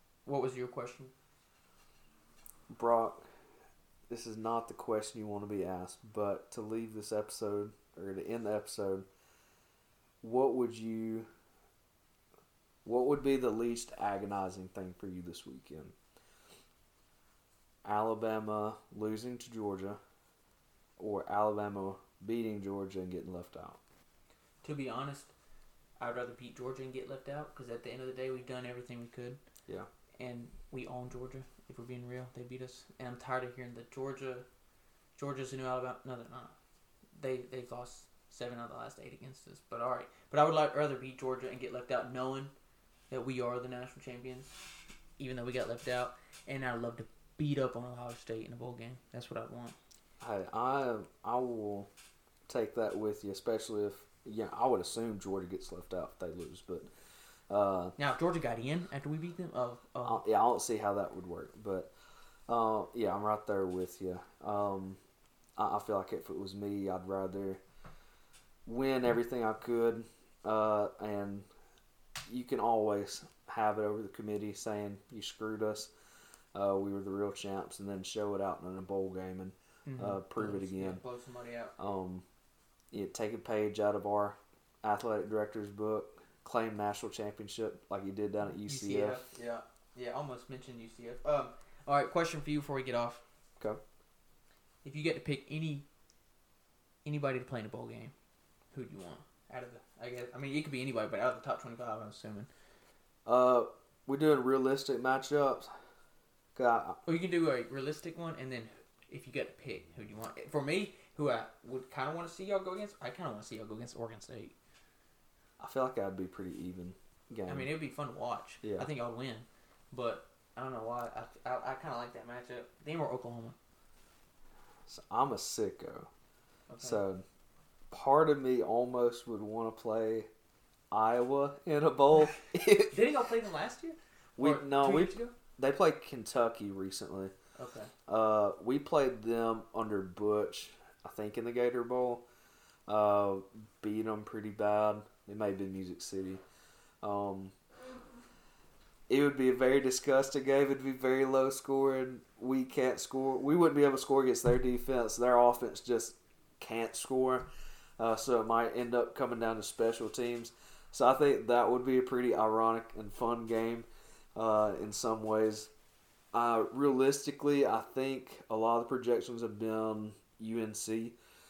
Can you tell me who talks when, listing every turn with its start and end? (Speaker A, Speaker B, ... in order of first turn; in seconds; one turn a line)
Speaker A: 0.3-1.1
Speaker B: 2.7-3.3
Speaker B: 4.1-9.1
Speaker B: 10.2-11.3
Speaker B: 12.8-15.9
Speaker B: 17.8-20.0
Speaker B: 21.0-23.8
Speaker A: 24.6-25.3
Speaker A: 26.0-29.4
Speaker A: 30.2-34.5
Speaker A: 35.2-36.5
Speaker A: 37.1-42.5
Speaker A: 43.1-44.6
Speaker A: 45.2-49.8
Speaker B: 50.2-51.9
Speaker B: 52.5-56.9
Speaker B: 57.5-58.0
Speaker A: 58.0-60.2
Speaker B: 60.0-61.9
Speaker B: 62.5-65.0
Speaker B: 65.6-67.6
Speaker B: 68.7-71.5
Speaker B: 72.3-75.9
Speaker B: 76.5-81.0
Speaker A: 79.9-81.8
Speaker B: 81.8-82.2
Speaker B: 82.9-89.2
Speaker A: 88.6-93.2
Speaker A: 94.8-95.9
Speaker A: 97.0-98.1
Speaker A: 98.7-102.5
Speaker B: 103.3-105.7
Speaker B: 106.6-107.0
Speaker A: 107.0-114.5
Speaker B: 115.6-117.7
Speaker A: 117.5-123.6
Speaker B: 118.6-118.9
Speaker B: 124.9-126.1
Speaker A: 126.7-127.0
Speaker B: 126.8-127.2
Speaker B: 127.9-130.3
Speaker B: 130.9-133.0
Speaker A: 132.8-135.3
Speaker B: 134.4-137.3
Speaker A: 137.6-137.9
Speaker B: 138.1-142.2
Speaker B: 142.9-146.4
Speaker B: 147.0-147.5
Speaker B: 149.1-157.5
Speaker B: 158.0-165.7
Speaker B: 166.3-171.2